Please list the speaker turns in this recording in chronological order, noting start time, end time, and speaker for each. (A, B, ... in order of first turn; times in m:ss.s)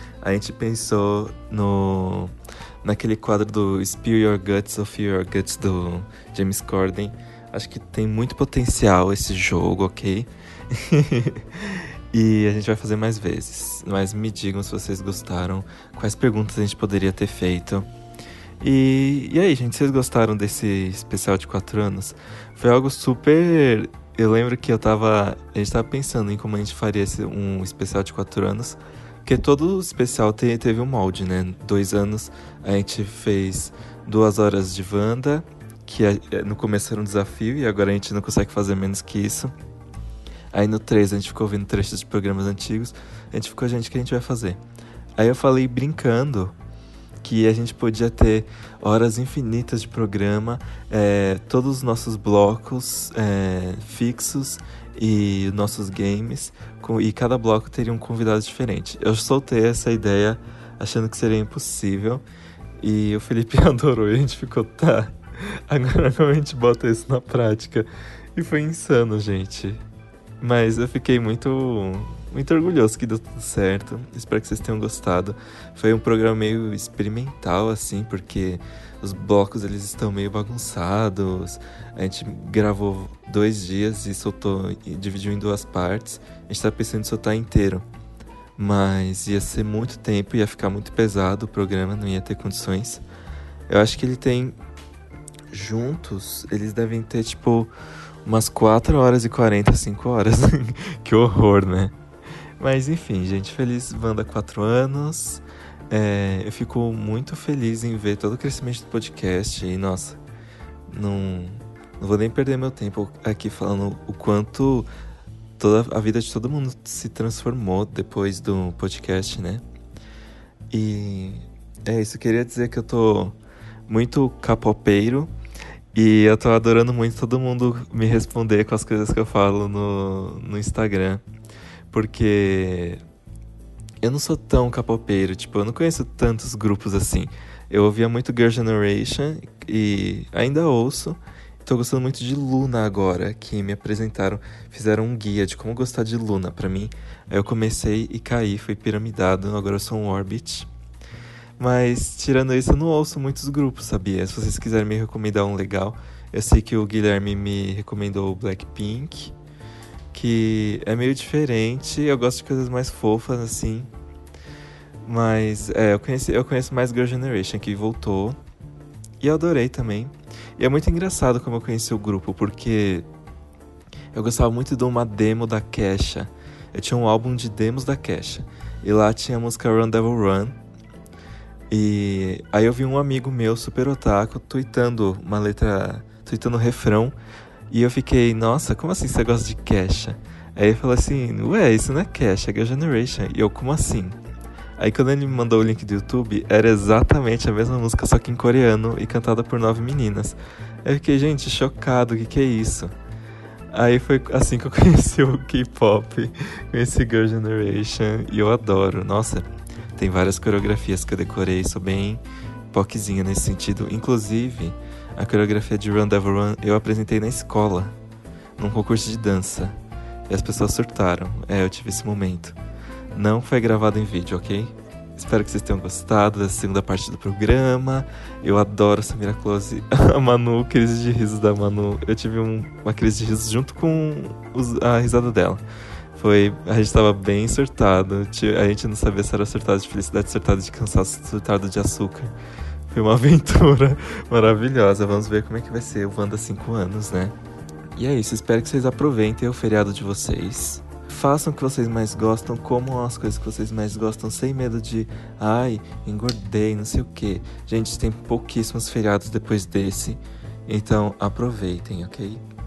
0:00.2-0:17.9 A
0:18.6-0:39.5 A
0:40.5-0:44.6 A
0:45.2-0:46.5 A
0:47.2-1:02.2 A
1:02.8-1:09.8 A
1:10.4-1:27.8 A
1:28.6-1:33.0 A
1:33.7-1:34.6 A
1:35.5-1:37.7 A
1:38.2-1:41.9 A
1:42.6-1:50.2 A
1:50.9-1:54.9 A
1:55.6-1:59.6 A
2:00.7-2:03.4 A
2:03.9-2:05.3 A
2:05.9-2:11.2 A
2:11.9-2:13.0 A
2:14.0-2:30.7 A
2:31.6-2:39.3 A
2:40.1-2:43.9 A
2:45.1-2:48.4 A
2:49.2-2:53.1 A
2:54.1-3:00.6 A
3:01.7-3:07.2 A
3:07.7-3:14.2 A
3:14.8-3:22.9 A
3:23.7-3:37.9 A
3:38.6-3:39.7 A
3:40.3-3:42.6 A
3:43.2-3:55.6 A
3:56.2-4:02.3 A
4:02.9-4:07.3 A
4:08.0-4:22.4 A